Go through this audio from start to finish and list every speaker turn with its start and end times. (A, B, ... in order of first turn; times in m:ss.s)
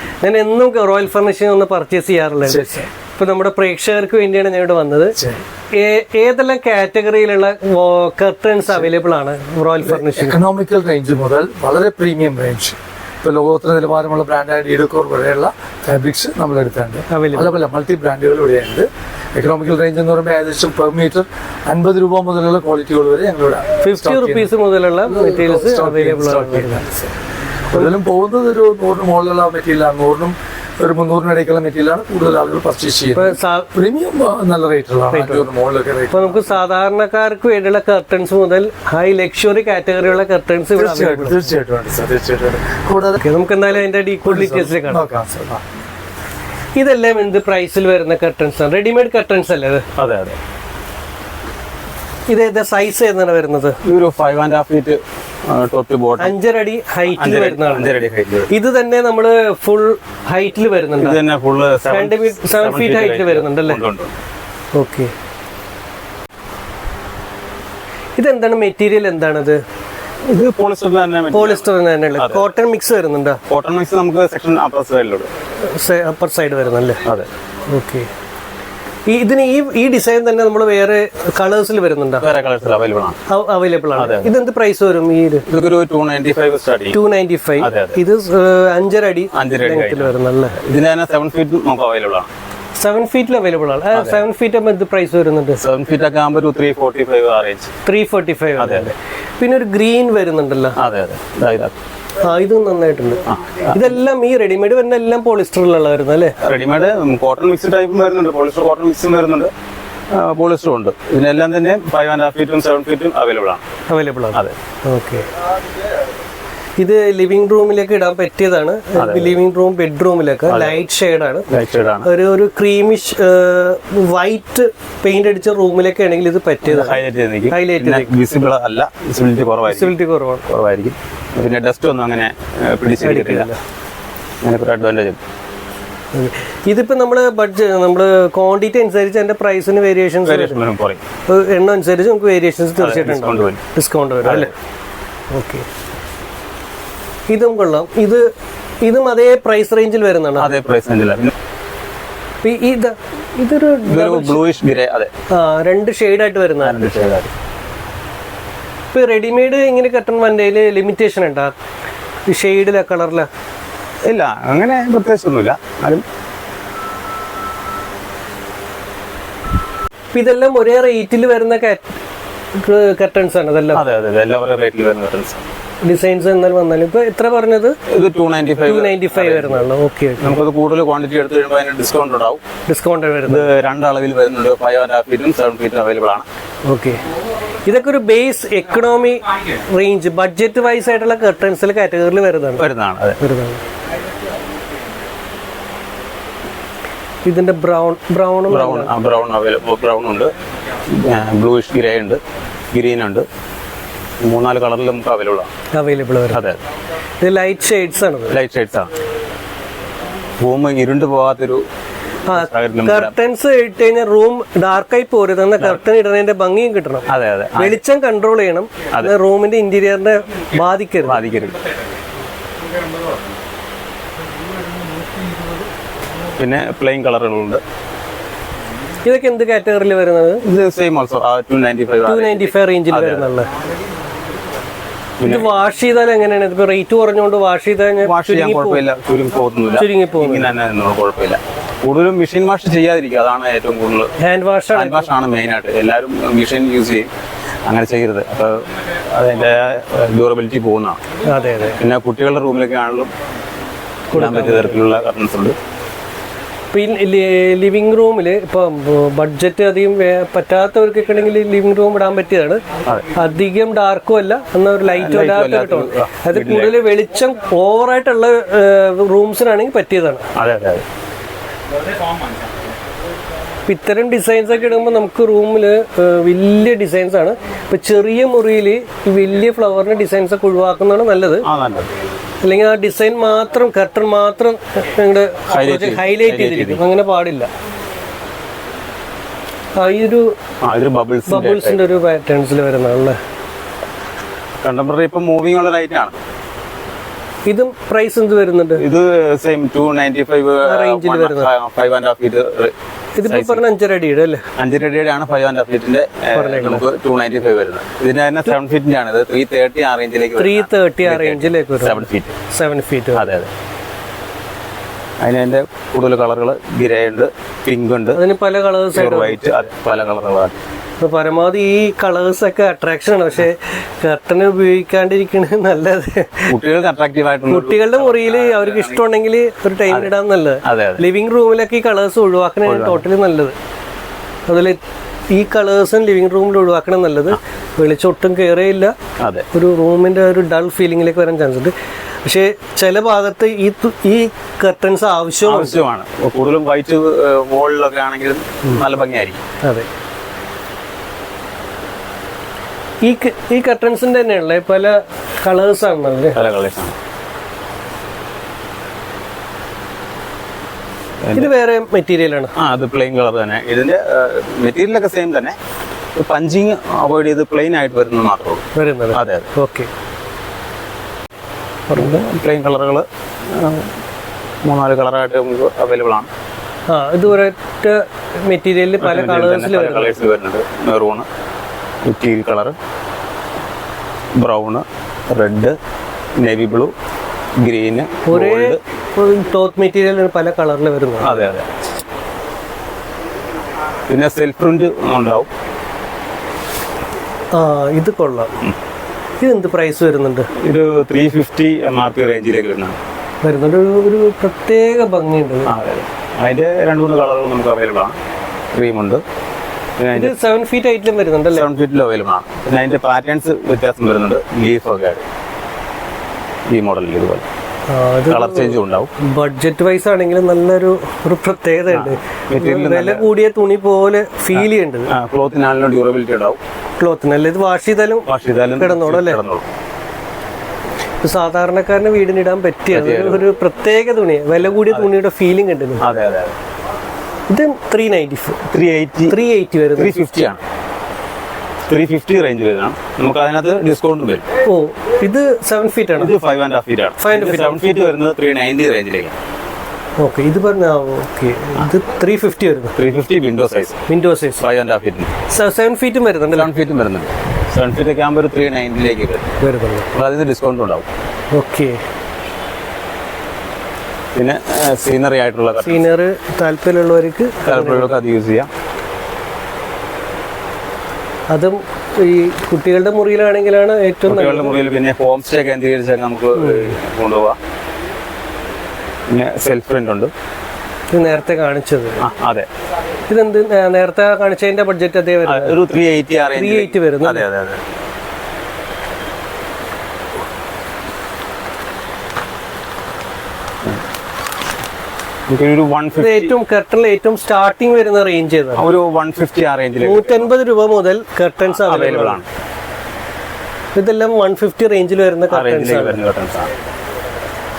0:00.2-0:05.2 A
0:02.4-0:02.9 B
0:05.2-0:05.4 B
0:05.7-0:10.4 A
0:09.8-0:24.5 B
0:17.1-0:17.5 A
0:23.8-0:26.8 A
0:25.0-0:27.1 B
0:27.7-0:36.5 B
0:33.1-0:33.7 A
0:35.1-0:35.4 A
0:36.1-0:41.4 A
0:40.8-0:43.2 B
0:43.2-0:45.0 A
0:44.2-0:45.6 B
0:46.8-0:49.8 A
0:50.0-0:50.4 C
0:52.3-0:53.8 A
0:53.8-0:56.3 C
0:56.2-0:57.9 A
0:57.1-0:58.5 C
0:58.5-1:01.2 A
1:01.0-1:04.1 C
1:01.9-1:03.8 A
1:04.7-1:05.1 A
1:08.2-1:09.6 A
1:10.2-1:12.4 C
1:11.3-1:13.4 A
1:13.5-1:15.3 C
1:15.6-1:17.0 A
1:17.7-1:18.1 A
1:19.1-1:22.2 A
1:22.2-1:23.2 C
1:23.3-1:25.4 A
1:24.0-1:24.3 C
1:25.5-1:27.0 C
1:26.9-1:30.6 A
1:27.6-1:28.0 C
1:29.3-1:32.3 C
1:32.8-1:35.6 A
1:33.9-1:34.2 C
1:35.6-1:37.7 C
1:37.8-1:40.8 A
1:38.6-1:38.9 C
1:40.8-1:41.8 C
1:42.2-1:46.4 A
1:43.2-1:44.0 C
1:46.4-1:49.5 C
1:50.1-1:53.6 C
1:53.9-1:55.3 A
1:56.8-2:01.4 A
1:59.0-1:59.4 C
2:00.5-2:00.8 C
2:01.5-2:02.1 C
2:02.0-2:08.1 A
2:06.6-2:10.0 C
2:09.7-2:10.4 A
2:10.5-2:13.5 C
2:13.0-2:13.6 A
2:14.4-2:15.2 C
2:16.1-2:20.6 A
2:20.2-2:21.0 C
2:21.3-2:24.5 A
2:22.8-2:23.6 C
2:24.2-2:24.5 C
2:25.3-2:25.7 A
2:27.3-2:28.3 A
2:28.8-2:30.5 A
2:30.4-2:31.3 C
2:32.4-2:34.4 A
2:33.9-2:35.1 C
2:35.3-2:36.8 A
2:36.6-2:37.3 C
2:38.9-2:41.5 A
2:42.3-2:43.3 A
2:44.0-2:46.0 C
2:50.1-2:51.9 A
2:52.5-2:53.8 A
2:53.7-2:55.4 C
2:55.8-2:57.8 A
2:57.9-2:59.6 C
2:58.6-3:00.4 A
3:00.2-3:02.4 C
3:02.7-3:03.5 A
3:03.3-3:06.2 C
3:06.6-3:07.0 A
3:07.6-3:12.6 A
3:12.6-3:13.2 C
3:13.2-3:13.6 A
3:17.2-3:18.9 A
3:18.5-3:20.3 C
3:20.9-3:22.2 C
3:22.7-3:23.2 C
3:24.2-3:25.5 C
3:25.7-3:26.4 A
3:26.3-3:26.6 C
3:27.2-3:28.4 A
3:28.3-3:28.9 C
3:30.4-3:31.6 C
3:32.3-3:41.2 A
3:32.3-3:33.1 C
3:37.1-3:37.8 C
3:41.0-3:41.6 C
3:46.4-3:47.6 C
3:49.0-3:50.4 A
3:50.4-3:53.3 C
3:52.0-3:53.5 A
3:55.2-3:55.5 C
3:55.2-3:58.8 A
3:58.0-4:04.1 C
3:59.8-4:00.5 A
4:04.2-4:05.1 A
4:04.7-4:07.1 C
4:07.6-4:11.0 C
4:11.2-4:11.8 A
4:11.8-4:13.1 C
4:14.1-4:14.8 A
4:14.1-4:15.6 C
4:16.7-4:30.3 A
4:24.8-4:26.8 C
4:30.4-4:30.8 C
4:33.7-4:41.4 A
4:41.4-4:41.9 C
4:42.4-4:47.5 A
4:45.5-4:46.8 C
4:49.8-4:50.3 A
4:50.6-4:51.9 C
4:51.3-4:53.2 A
4:54.6-4:56.2 C
4:57.5-4:58.8 A
4:58.8-5:02.7 C
5:00.6-5:01.5 A
5:03.2-5:04.4 A
5:03.2-5:03.6 C
5:04.6-5:12.4 C
5:06.3-5:06.8 A
5:10.4-5:13.2 A
5:13.1-5:13.5 C
5:15.2-5:18.2 C
5:18.1-5:19.4 A
5:18.9-5:20.6 C
5:21.0-5:26.5 A
5:26.5-5:29.0 C
5:27.5-5:33.6 A
5:30.6-5:31.0 C
5:32.6-5:33.0 C
5:34.5-5:38.9 A
5:39.2-5:39.4 C
5:39.5-5:41.7 A
5:42.2-5:45.8 A
5:45.4-5:49.4 C
5:53.0-5:56.4 A
5:56.3-5:56.9 C
6:01.2-6:01.5 C
6:01.4-6:02.5 A
6:02.6-6:05.6 C
6:06.2-6:09.5 C
6:08.7-6:09.9 A
6:11.9-6:12.2 A
6:11.9-6:13.9 C
6:14.6-6:16.3 C
6:16.9-6:20.1 A
6:19.0-6:21.2 C
6:22.0-6:22.7 C
6:24.4-6:25.8 C
6:26.4-6:26.9 C
6:27.6-6:28.8 C
6:28.3-6:31.3 A
6:31.2-6:31.7 C
6:34.1-6:35.5 C
6:37.5-6:38.6 A
6:39.4-6:40.5 A
6:40.6-6:43.0 C
6:43.4-6:45.7 A
6:45.7-6:48.2 C
6:48.7-6:49.2 C
6:50.0-6:50.3 C
6:50.1-6:51.7 A
6:51.5-6:55.2 C
6:56.7-6:57.4 C
6:57.9-7:05.1 A
6:58.3-6:59.1 C
7:01.9-7:03.2 C
7:04.5-7:06.6 C
7:07.0-7:08.3 A
7:08.3-7:09.6 C
7:08.8-7:09.4 A
7:11.2-7:16.0 A
7:12.9-7:13.4 C
7:16.0-7:16.5 C
7:17.5-7:18.6 A
7:18.7-7:19.4 C
7:19.3-7:20.1 A
7:20.0-7:20.6 C
7:21.9-7:24.4 C
7:24.6-7:26.3 A
7:26.2-7:29.3 C
7:27.2-7:27.9 A
7:30.2-7:32.9 A
7:33.0-7:34.0 C
7:34.1-7:34.6 A
7:34.6-7:35.3 C
7:35.5-7:36.7 A
7:36.5-7:39.5 C
7:39.6-7:40.1 A
7:40.1-7:41.1 C
7:41.5-7:42.0 A
7:44.3-7:46.1 C
7:45.8-7:48.1 A
7:47.6-7:48.7 C
7:51.5-7:54.7 A
7:54.3-7:57.6 C
7:56.6-7:56.9 A
7:59.3-8:00.3 C
8:01.1-8:02.2 A
8:02.2-8:02.7 C
8:03.3-8:05.7 A
8:05.4-8:07.8 C
8:06.5-8:07.4 A
8:15.5-8:16.5 C
8:16.2-8:18.8 A
8:18.8-8:20.4 C
8:20.0-8:22.4 A
8:21.7-8:22.4 C
8:23.9-8:26.2 A
8:25.5-8:26.7 C